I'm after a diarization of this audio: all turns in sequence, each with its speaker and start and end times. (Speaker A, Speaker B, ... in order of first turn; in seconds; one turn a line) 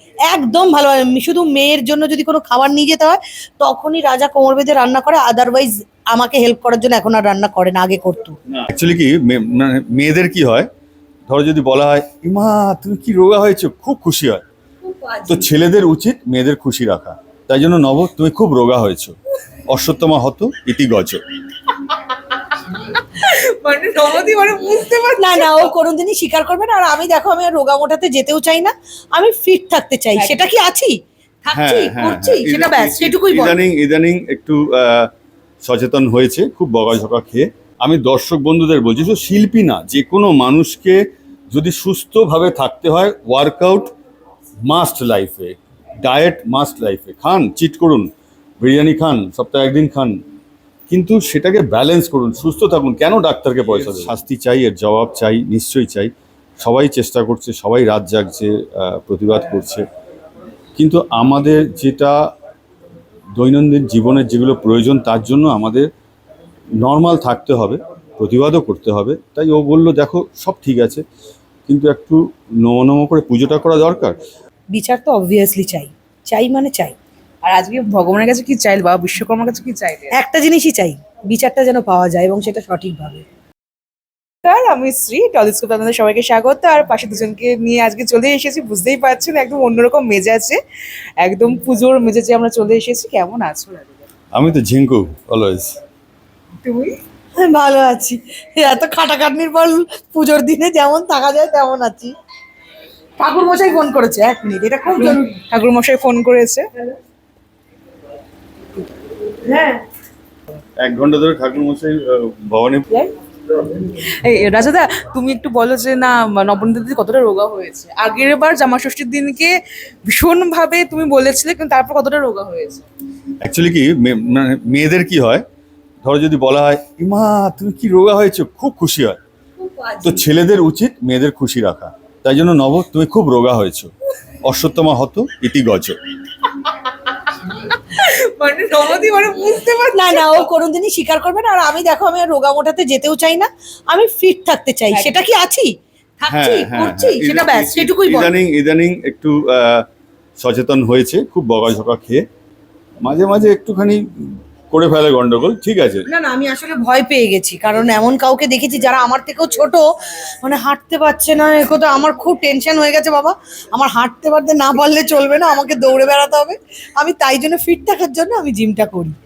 Speaker A: 0.3-8.3
Speaker B: 8.5-10.7
Speaker B: 11.3-14.4
Speaker A: 15.0-15.3
Speaker B: 15.3-19.1
Speaker B: 19.7-21.2
Speaker C: 21.8-25.7
Speaker A: 25.2-30.9
Speaker C: 30.2-30.4
Speaker A: 31.4-33.6
Speaker B: 31.5-35.1
Speaker B: 35.6-41.0
Speaker B: 41.5-43.9
Speaker B: 44.7-48.1
Speaker B: 48.6-50.2
Speaker B: 50.9-56.1
Speaker B: 56.6-59.8
Speaker B: 60.8-62.2
Speaker B: 63.4-65.9
Speaker B: 66.8-71.0
Speaker B: 71.7-74.2
Speaker A: 74.7-76.9
Speaker C: 77.4-80.1
Speaker A: 80.1-83.2
Speaker C: 84.4-90.6
Speaker C: 91.2-94.0
Speaker B: 94.3-95.7
Speaker C: 96.6-96.9
Speaker A: 97.4-102.1
Speaker A: 103.2-105.4
Speaker C: 104.9-106.7
Speaker A: 109.4-109.8
Speaker B: 110.8-112.8
Speaker C: 113.9-119.5
Speaker C: 120.1-122.8
Speaker B: 123.4-125.4
Speaker B: 126.0-129.2
Speaker A: 129.7-130.0
Speaker B: 130.0-133.9
Speaker B: 134.4-136.0
Speaker C: 136.6-140.5
Speaker A: 139.9-148.3
Speaker C: 144.9-145.2
Speaker B: 146.3-149.8
Speaker B: 150.4-152.2
Speaker B: 153.0-156.0
Speaker A: 156.1-169.1